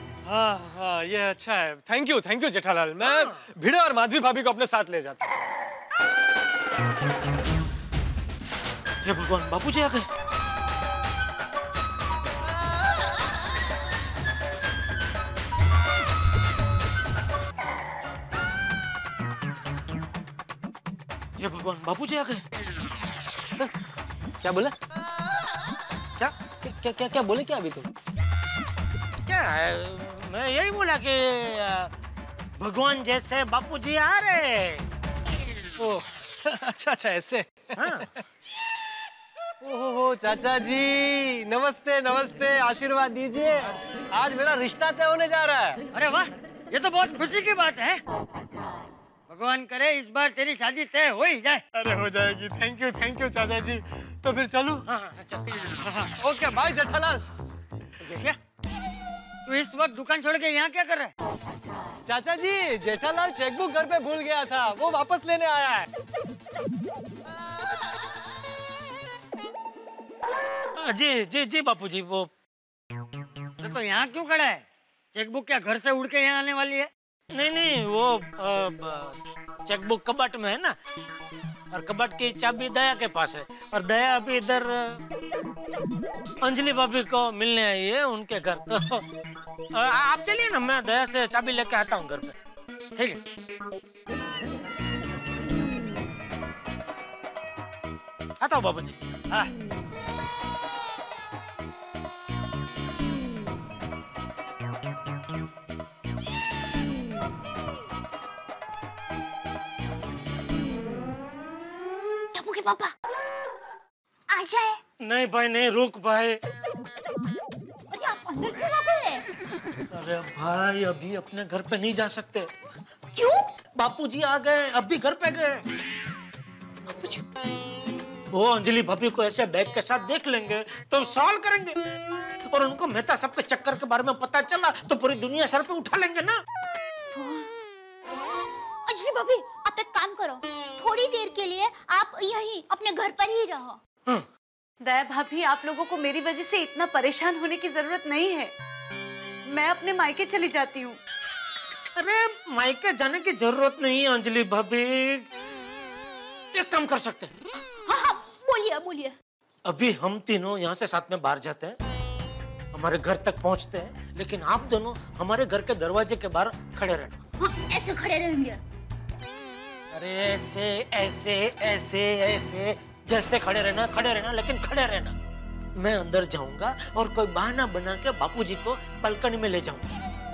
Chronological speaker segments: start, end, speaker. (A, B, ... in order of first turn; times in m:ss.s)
0:00.2-0:05.2 A
0:03.0-0:03.4 B
0:09.0-0:10.0 B
0:21.4-0:22.4 B
0:24.4-0:24.7 A
0:26.6-0:27.9 A
0:29.3-0:31.9 B
0:32.6-0:34.8 B
0:36.4-0:38.0 A
0:37.8-0:38.1 B
0:39.6-0:45.8 A
0:45.9-0:48.0 C
0:49.3-0:51.6 C
0:51.7-0:54.8 A
0:54.9-0:56.0 B
0:56.0-0:57.2 A
0:58.0-0:58.4 C
0:59.4-1:01.1 C
1:02.0-1:05.9 A
1:10.8-1:12.3 B
1:13.6-1:16.9 C
1:17.3-1:20.8 B
1:21.7-1:25.0 B
1:26.4-1:29.0 B
1:29.7-1:32.4 B
1:38.4-1:39.0 B
1:52.3-1:52.9 D
1:54.3-1:54.8 D
1:55.0-1:56.4 B
1:57.9-1:59.2 D
1:59.9-2:02.5 B
2:03.1-2:03.5 D
2:03.8-2:05.6 B
2:08.3-2:11.8 B
2:12.4-2:16.4 B
2:17.1-2:17.5 D
2:18.8-2:23.8 D
2:24.8-2:28.5 E
2:29.5-2:31.0 E
2:32.0-2:35.3 B
2:36.5-2:37.3 B
2:37.9-2:39.1 D
2:39.6-2:41.8 B
2:42.7-2:47.1 B
2:47.4-2:48.6 D
2:49.9-2:55.2 B
2:55.8-2:59.8 B